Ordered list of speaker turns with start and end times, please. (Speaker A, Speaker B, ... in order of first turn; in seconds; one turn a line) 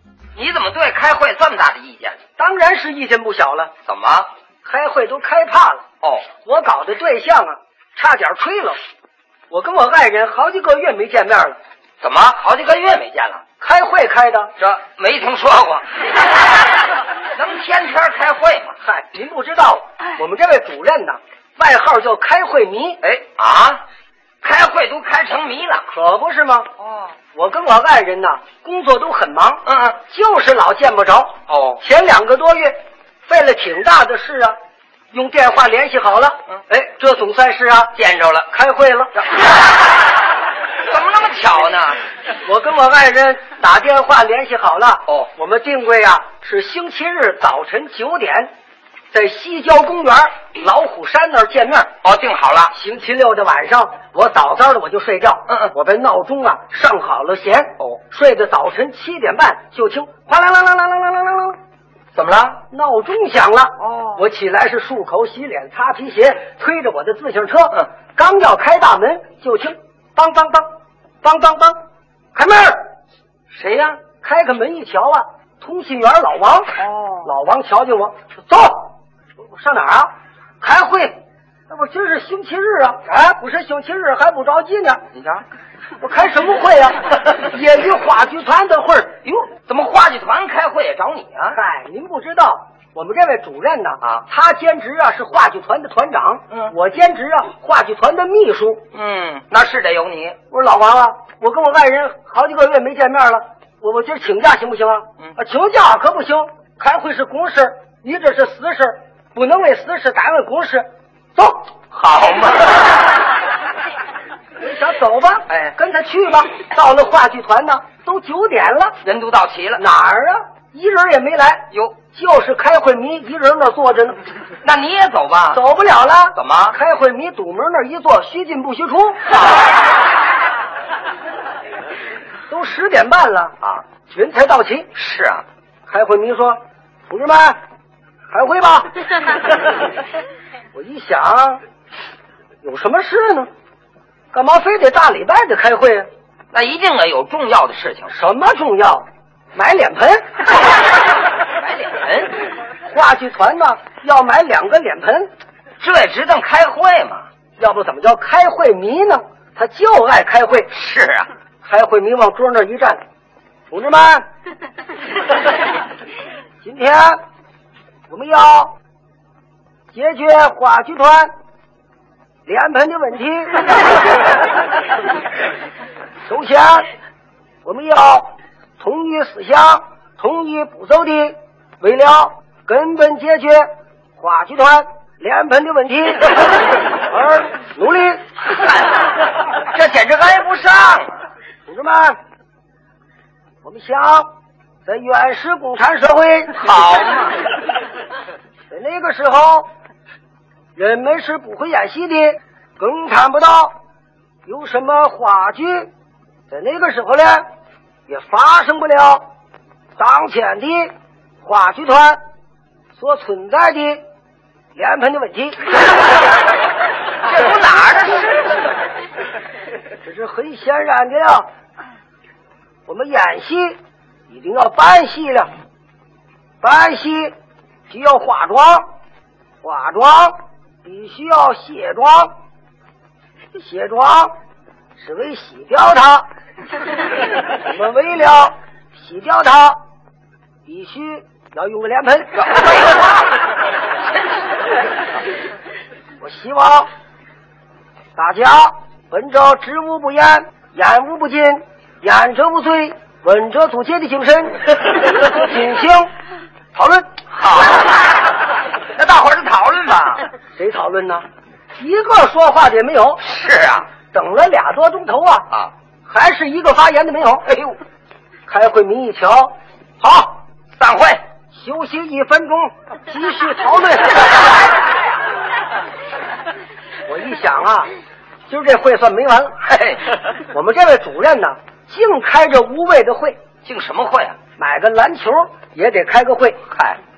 Speaker A: 0.3-2.2
Speaker B: 2.4-3.7
Speaker A: 3.9-4.3
Speaker B: 4.6-5.8
Speaker A: 6.0-6.3
Speaker B: 6.4-8.8
Speaker B: 9.5-11.6
Speaker A: 12.0-13.4
Speaker B: 13.6-14.5
Speaker A: 14.6-15.9
Speaker A: 17.3-18.8
Speaker B: 18.8-23.0
Speaker A: 23.0-23.8
Speaker A: 24.4-25.9
Speaker B: 25.9-26.7
Speaker A: 26.8-27.1
Speaker B: 27.3-34.5
Speaker A: 29.6-30.0
Speaker A: 31.5-31.8
Speaker B: 35.1-37.9
Speaker A: 37.9-38.5
Speaker B: 38.5-39.2
Speaker A: 40.9-42.0
Speaker B: 42.4-48.5
Speaker B: 49.1-51.9
Speaker A: 52.0-52.7
Speaker B: 52.7-61.6
Speaker A: 62.1-62.6
Speaker B: 62.7-70.7
Speaker A: 63.8-64.2
Speaker B: 71.2-71.8
Speaker B: 72.3-72.9
Speaker A: 73.5-74.0
Speaker B: 74.2-81.2
Speaker A: 76.8-77.2
Speaker B: 81.7-85.0
Speaker A: 85.1-85.4
Speaker B: 86.0-89.5
Speaker A: 89.5-91.6
Speaker B: 91.5-98.8
Speaker A: 98.9-100.4
Speaker B: 100.5-111.7
Speaker A: 111.9-113.0
Speaker B: 114.6-119.0
Speaker A: 119.0-119.8
Speaker B: 119.8-124.2
Speaker A: 121.7-122.0
Speaker A: 124.6-125.6
Speaker B: 125.5-129.3
Speaker A: 126.3-126.8
Speaker B: 132.5-133.5
Speaker B: 134.1-134.9
Speaker A: 134.9-135.4
Speaker B: 135.9-137.6
Speaker B: 138.3-139.0
Speaker B: 140.7-141.6
Speaker B: 142.6-143.5
Speaker B: 144.3-146.1
Speaker A: 146.5-148.1
Speaker B: 148.1-150.4
Speaker A: 151.5-152.4
Speaker B: 152.9-155.3
Speaker A: 155.8-157.3
Speaker B: 157.6-160.7
Speaker A: 160.7-161.3
Speaker B: 161.6-163.0
Speaker B: 163.7-164.2
Speaker B: 166.6-167.2
Speaker B: 168.1-168.7
Speaker B: 169.9-171.3
Speaker B: 172.4-173.8
Speaker B: 176.2-176.9
Speaker B: 177.6-186.4
Speaker B: 186.9-188.2
Speaker A: 189.6-191.2
Speaker B: 191.7-192.2
Speaker B: 193.6-194.3
Speaker B: 194.8-196.7
Speaker A: 196.6-197.5
Speaker B: 198.7-199.7
Speaker B: 200.8-203.7
Speaker B: 204.4-205.9
Speaker B: 206.5-207.4
Speaker B: 208.1-209.2
Speaker B: 210.0-212.2
Speaker B: 212.9-214.0
Speaker B: 214.7-215.8
Speaker A: 217.2-218.7
Speaker B: 220.0-221.5
Speaker B: 222.9-225.5
Speaker B: 226.6-227.3
Speaker B: 227.9-228.9
Speaker B: 229.6-232.3
Speaker B: 233.6-234.3
Speaker B: 235.0-236.3
Speaker B: 237.5-239.8
Speaker B: 240.7-243.1
Speaker B: 246.2-246.9
Speaker B: 248.2-256.1
Speaker B: 256.7-257.1
Speaker A: 257.3-258.0
Speaker A: 258.9-260.3
Speaker B: 260.5-261.2
Speaker B: 261.8-263.2
Speaker A: 263.2-263.9
Speaker B: 264.1-265.5
Speaker B: 266.1-267.6
Speaker B: 268.5-270.4
Speaker A: 270.8-271.2
Speaker B: 271.5-274.4
Speaker B: 277.1-277.9
Speaker B: 278.5-279.6
Speaker A: 279.6-280.1
Speaker B: 280.5-283.4
Speaker A: 283.6-284.4
Speaker B: 284.6-286.6
Speaker A: 286.7-287.0